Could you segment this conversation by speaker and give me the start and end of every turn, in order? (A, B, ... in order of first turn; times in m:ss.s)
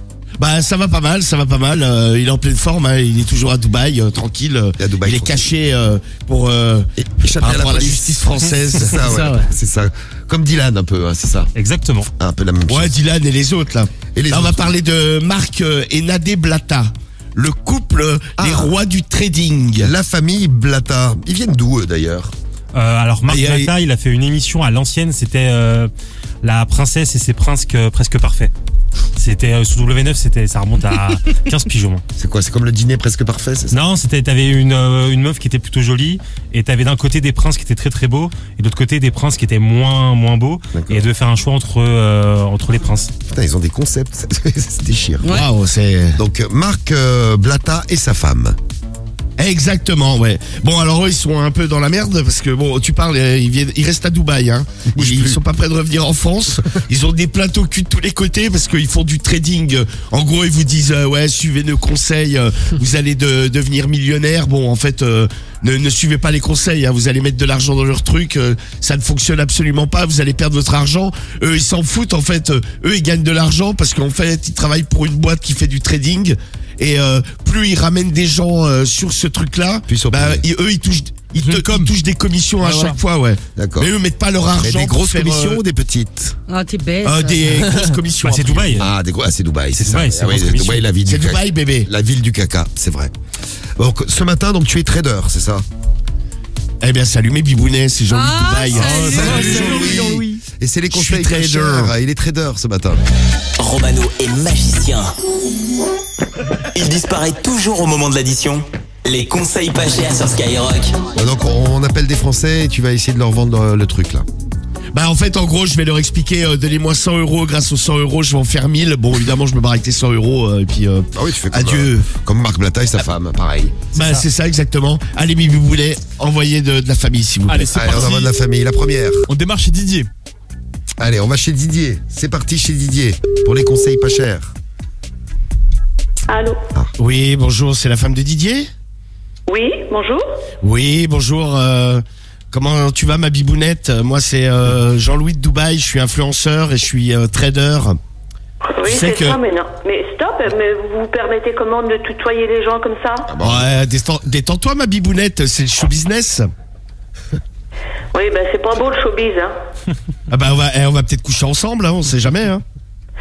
0:00.4-0:09.2 A
0:04.8-0:05.5 B
0:07.0-0:08.1 B
0:08.7-0:11.5 B
0:11.6-0:12.1 C
0:12.2-0:12.9 B
0:12.7-0:19.9 A
0:14.1-0:14.7 B
0:18.4-0:18.8 B
0:19.8-0:22.3 B
0:22.7-0:25.9 C
0:23.2-0:23.7 A
0:26.4-0:28.5 C
0:29.2-0:32.0 C
0:32.2-0:33.8 B
0:33.7-0:43.1 C
0:40.7-0:41.1 B
0:43.3-0:45.3 B
0:45.3-0:46.2 A
0:46.2-0:48.6 B
0:49.4-1:25.6 A
0:54.9-0:55.4 B
1:19.9-1:20.4 B
1:21.4-1:21.9 D
1:22.6-1:23.0 D
1:23.6-1:23.9 B
1:24.5-1:26.4 B
1:26.5-1:27.6 E
1:27.0-1:28.8 A
1:28.2-1:28.9 C
1:28.8-1:33.1 B
1:29.8-1:30.8 C
1:30.4-1:31.9 A
1:33.8-1:35.6 B
1:36.8-1:40.2 A
1:38.1-1:39.6 E
1:38.8-1:40.4 D
1:39.0-1:43.0 B
1:40.9-1:41.9 A
1:43.6-1:45.1 F
1:46.7-1:51.0 F
1:51.2-1:54.2 B
1:54.9-2:02.1 A
2:01.1-2:03.8 B
2:03.9-2:07.8 A
2:03.9-2:04.2 C
2:07.5-2:08.3 D
2:07.7-2:09.2 B
2:09.3-2:10.1 D
2:11.0-2:14.5 B
2:16.3-2:16.6 G
2:17.0-2:18.7 A
2:19.5-2:20.2 G
2:20.6-2:28.0 A
2:28.8-2:33.3 G
2:28.8-2:29.4 A
2:33.3-2:33.7 B
2:33.4-2:36.5 A
2:38.1-2:39.5 G
2:40.3-2:42.6 A